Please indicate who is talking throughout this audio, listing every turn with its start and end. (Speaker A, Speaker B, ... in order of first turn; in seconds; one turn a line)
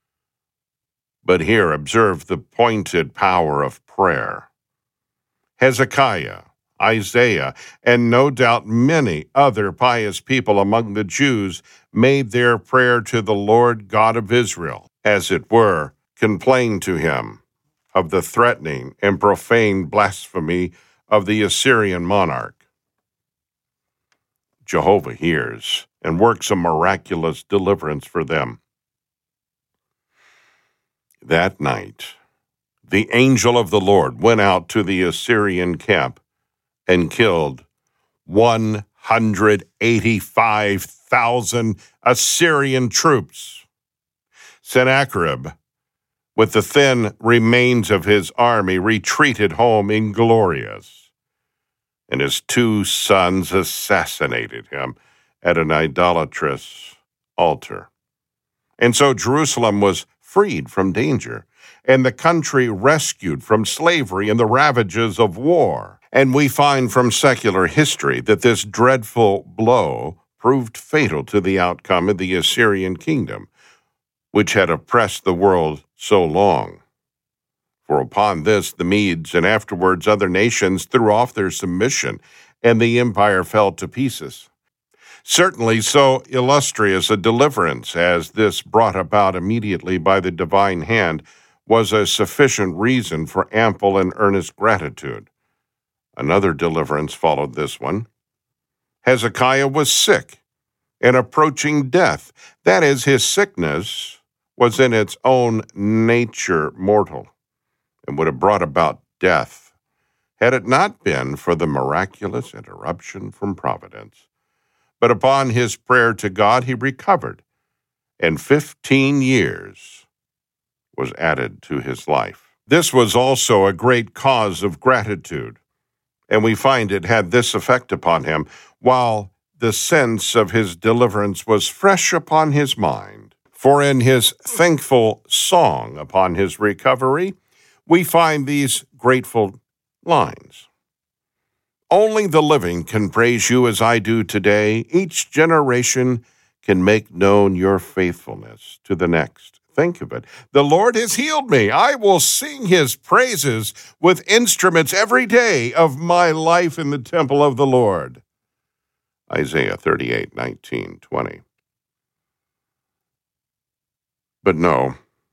Speaker A: 1.2-4.5
Speaker A: 5.6-17.4
Speaker A: 17.9-22.6
Speaker A: 24.6-28.6
Speaker A: 31.2-32.1
Speaker A: 32.9-36.2
Speaker A: 36.9-37.6
Speaker A: 38.3-43.6
Speaker A: 44.6-45.5
Speaker A: 46.4-51.0
Speaker A: 52.1-57.9
Speaker A: 58.8-73.5
Speaker A: 74.3-76.8
Speaker A: 77.9-84.5
Speaker A: 85.2-95.3
Speaker A: 96.2-98.1
Speaker A: 99.0-100.4
Speaker A: 101.0-107.3
Speaker A: 108.1-109.6
Speaker A: 110.4-114.2
Speaker A: 115.0-117.4
Speaker A: 118.2-120.0
Speaker A: 121.0-125.6
Speaker A: 126.3-137.4
Speaker A: 137.9-140.7
Speaker A: 141.9-158.2
Speaker A: 159.3-161.4
Speaker A: 164.4-165.0